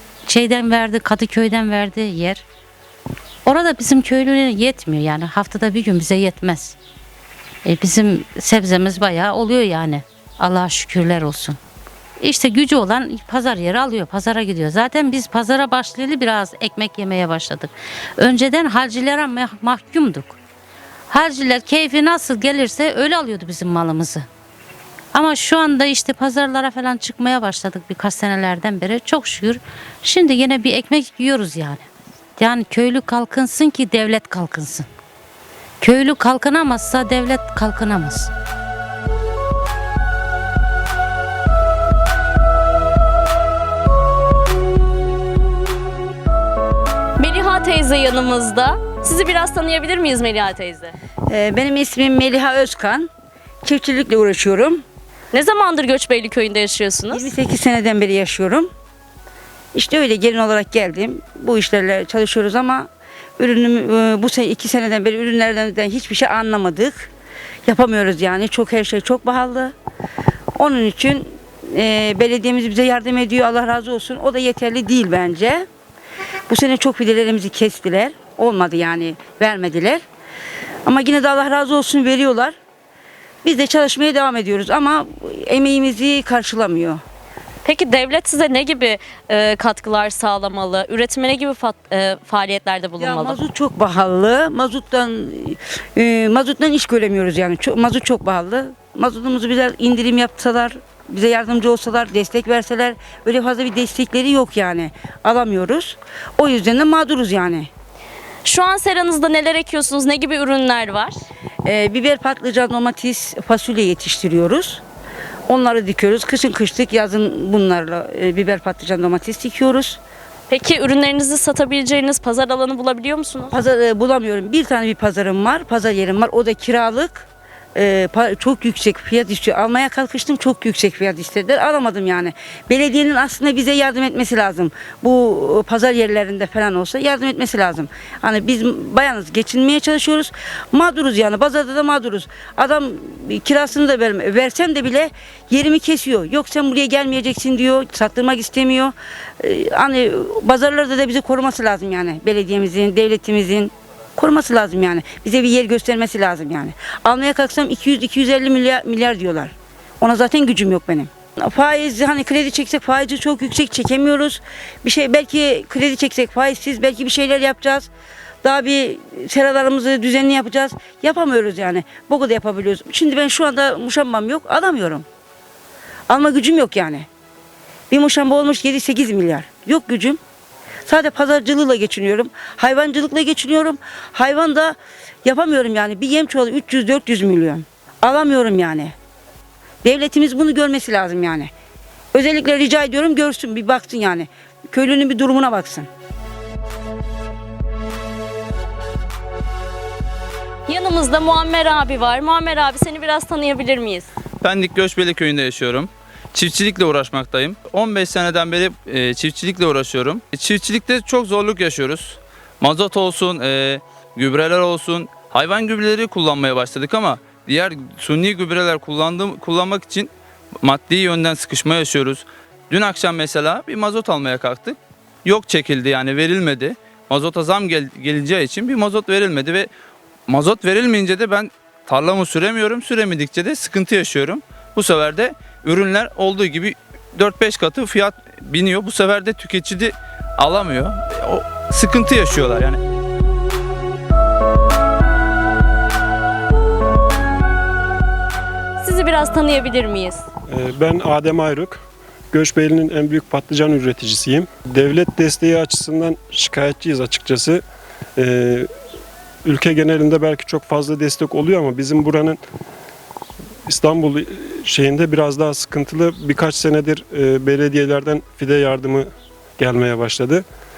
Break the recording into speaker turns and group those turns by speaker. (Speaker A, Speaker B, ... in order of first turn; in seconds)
Speaker A: 0.3-2.5, 3.4-6.8, 7.6-11.6, 12.2-20.4, 21.1-24.3, 25.1-34.9, 35.8-38.3
Speaker B: 47.2-51.0, 55.3-57.3, 87.6-93.4, 108.4-111.2, 120.5-123.5, 200.7-204.1, 248.8-250.2
Speaker C: 51.3-53.1, 53.6-54.8, 57.1-58.7, 59.7-67.1, 67.6-69.7, 70.5-75.7, 76.5-80.0, 80.8-82.6, 83.4-87.0, 93.0-107.7, 111.6-114.8, 115.5-120.0, 123.5-167.9, 168.4-175.1, 176.1-177.1, 177.9-180.2, 180.8-188.9, 189.8-191.5, 192.1-195.9
Speaker D: 204.4-229.7, 230.3-242.8
Speaker E: 250.5-251.8, 252.3-257.6, 258.2-258.7, 259.4-262.4, 263.7-270.4